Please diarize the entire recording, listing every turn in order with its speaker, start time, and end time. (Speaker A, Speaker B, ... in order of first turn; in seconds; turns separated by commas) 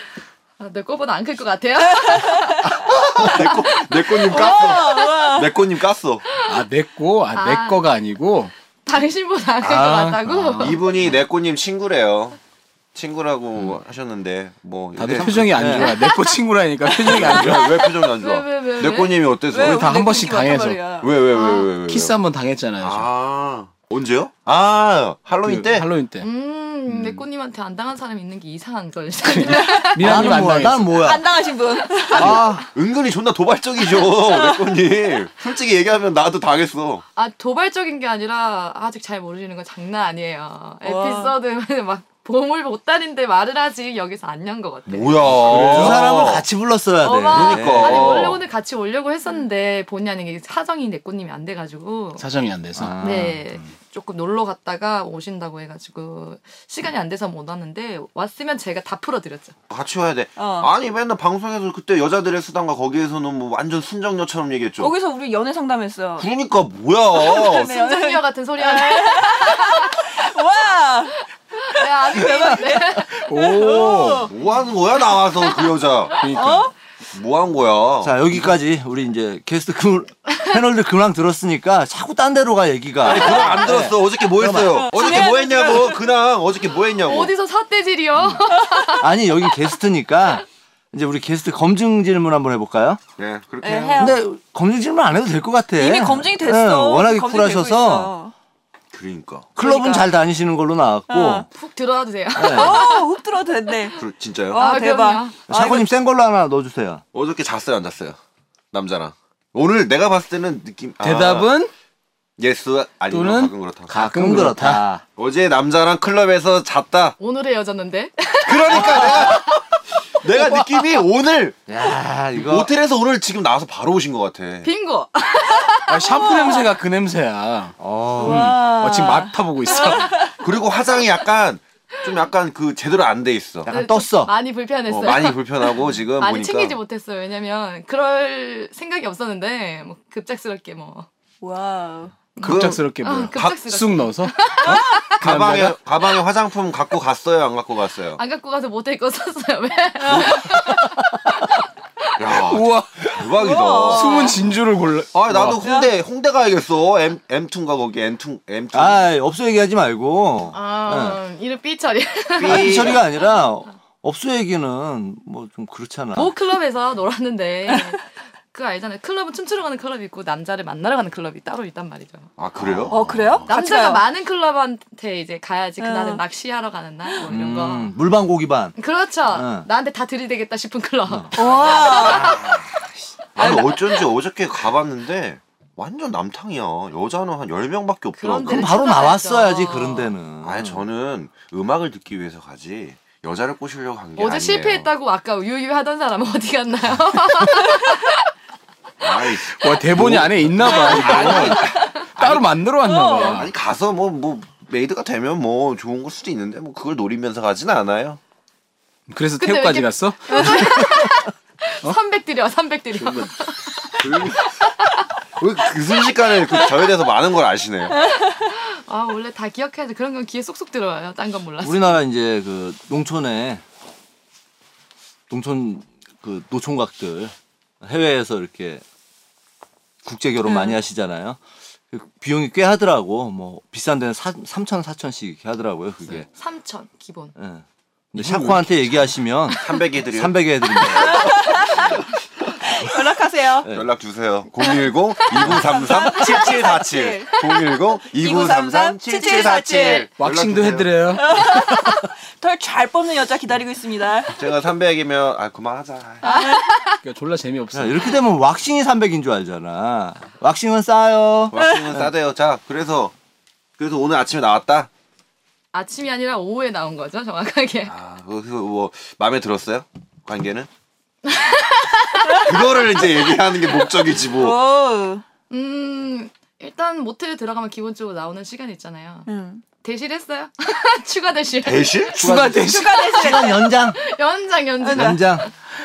Speaker A: 0.6-2.7, Speaker B: 2.0-2.5, Speaker C: 2.6-6.2, Speaker B: 4.1-5.6, Speaker D: 6.5-8.5, Speaker A: 7.3-7.9, Speaker A: 8.9-10.8, Speaker E: 9.6-10.2, Speaker D: 10.3-10.8, Speaker C: 10.6-12.4, Speaker C: 12.9-15.9, Speaker D: 15.0-17.8, Speaker E: 15.2-15.9, Speaker C: 17.0-19.9, Speaker A: 18.2-19.3, Speaker B: 19.5-21.1, Speaker D: 19.6-20.9, Speaker C: 21.0-22.2, Speaker A: 21.3-21.7, Speaker D: 21.9-23.1, Speaker C: 22.8-25.9, Speaker D: 25.4-26.3, Speaker A: 26.2-30.3, Speaker D: 29.3-31.0, Speaker B: 29.5-29.8, Speaker E: 30.0-31.2, Speaker B: 30.9-32.4, Speaker E: 32.1-32.7, Speaker C: 32.2-37.0, Speaker B: 34.0-34.6, Speaker A: 37.2-45.2, Speaker B: 40.8-41.3, Speaker C: 44.9-46.5, Speaker D: 45.4-46.1, Speaker E: 45.5-48.3, Speaker A: 47.0-52.3, Speaker C: 47.3-48.4, Speaker D: 52.2-53.3, Speaker E: 52.8-53.4, Speaker A: 53.0-59.5, Speaker C: 59.7-64.9, Speaker B: 60.4-60.7, Speaker B: 64.8-66.3, Speaker C: 66.2-67.7, Speaker B: 67.2-71.2, Speaker A: 67.5-70.1, Speaker A: 71.6-73.2, Speaker B: 71.8-74.3, Speaker D: 73.2-74.3, Speaker C: 74.2-76.5, Speaker D: 76.2-76.7, Speaker B: 76.3-76.7, Speaker C: 77.1-78.5, Speaker E: 78.0-84.9, Speaker C: 83.0-87.3, Speaker B: 84.8-86.0, Speaker A: 87.0-89.1, Speaker E: 89.0-93.0, Speaker C: 93.2-94.2, Speaker B: 93.6-94.2, Speaker E: 94.0-98.1, Speaker B: 95.8-98.3, Speaker C: 98.9-99.5, Speaker E: 99.6-101.5, Speaker B: 99.6-100.1, Speaker B: 101.1-101.5, Speaker A: 101.5-103.1, Speaker E: 102.4-102.8, Speaker B: 102.4-104.0, Speaker C: 104.0-104.6, Speaker B: 104.5-105.6, Speaker A: 104.5-105.4, Speaker E: 105.5-107.0, Speaker C: 107.1-108.2, Speaker C: 108.7-111.5, Speaker D: 111.0-111.7, Speaker C: 112.4-113.9, Speaker D: 113.1-114.8, Speaker E: 113.9-115.0, Speaker C: 115.2-117.2, Speaker A: 117.2-119.4, Speaker C: 118.5-119.7, Speaker C: 120.2-121.6, Speaker E: 121.7-122.7, Speaker C: 122.3-124.7, Speaker A: 124.6-126.6, Speaker D: 125.9-130.3, Speaker E: 127.8-128.6, Speaker B: 128.2-130.3, Speaker C: 130.4-133.7, Speaker E: 133.7-134.3, Speaker A: 133.7-141.1, Speaker C: 134.9-136.8, Speaker B: 141.4-142.2, Speaker A: 142.4-145.1, Speaker D: 142.4-145.8, Speaker C: 142.4-143.6, Speaker C: 145.2-148.2, Speaker A: 148.2-151.4, Speaker C: 150.1-150.7, Speaker C: 152.2-154.3, Speaker D: 152.4-153.2, Speaker B: 153.4-154.4, Speaker D: 153.9-155.6, Speaker C: 155.1-159.0, Speaker B: 155.6-155.9, Speaker E: 158.7-161.2, Speaker A: 160.5-163.0, Speaker C: 162.4-163.0, Speaker E: 162.4-166.3, Speaker A: 166.2-172.3, Speaker C: 172.4-173.4, Speaker B: 172.9-174.0, Speaker A: 173.5-177.9, Speaker B: 175.8-176.2, Speaker E: 177.2-178.8, Speaker A: 178.8-182.4, Speaker E: 179.3-179.7, Speaker E: 181.1-181.3, Speaker B: 181.4-182.4, Speaker C: 182.1-182.7, Speaker C: 183.3-188.8, Speaker B: 183.4-184.0, Speaker A: 188.1-190.2, Speaker E: 188.4-190.8, Speaker C: 190.4-194.9, Speaker A: 194.2-198.2, Speaker C: 199.0-202.5, Speaker D: 199.5-203.5, Speaker E: 201.1-201.5, Speaker B: 202.8-203.5, Speaker C: 203.2-208.2, Speaker D: 209.1-210.9, Speaker A: 209.4-215.0, Speaker C: 213.0-213.3, Speaker C: 214.0-214.6, Speaker C: 215.4-218.0, Speaker A: 218.4-222.0, Speaker E: 221.6-223.6, Speaker E: 225.3-228.8, Speaker E: 230.1-231.4, Speaker B: 230.4-230.8, Speaker E: 231.9-236.3, Speaker A: 236.3-237.3, Speaker E: 237.4-241.4, Speaker D: 238.2-238.5, Speaker C: 239.5-242.1, Speaker B: 241.1-241.8, Speaker B: 242.7-243.7, Speaker C: 243.7-251.2, Speaker B: 245.4-247.6, Speaker B: 248.1-250.1, Speaker D: 250.2-251.3, Speaker B: 251.2-254.4, Speaker C: 254.3-256.3, Speaker B: 256.2-256.7, Speaker A: 256.2-257.0, Speaker D: 257.0-258.2, Speaker E: 257.7-262.1, Speaker C: 261.5-263.1, Speaker C: 263.8-264.9, Speaker A: 265.7-267.9, Speaker C: 267.9-270.7, Speaker A: 271.3-272.5, Speaker C: 272.4-274.6, Speaker B: 274.1-275.2, Speaker A: 275.5-279.3, Speaker B: 279.3-279.6, Speaker A: 279.8-282.2, Speaker C: 281.6-282.6, Speaker D: 282.2-283.1, Speaker B: 282.5-283.7, Speaker E: 283.1-284.0, Speaker A: 283.3-285.5, Speaker B: 284.8-285.2, Speaker E: 284.9-285.5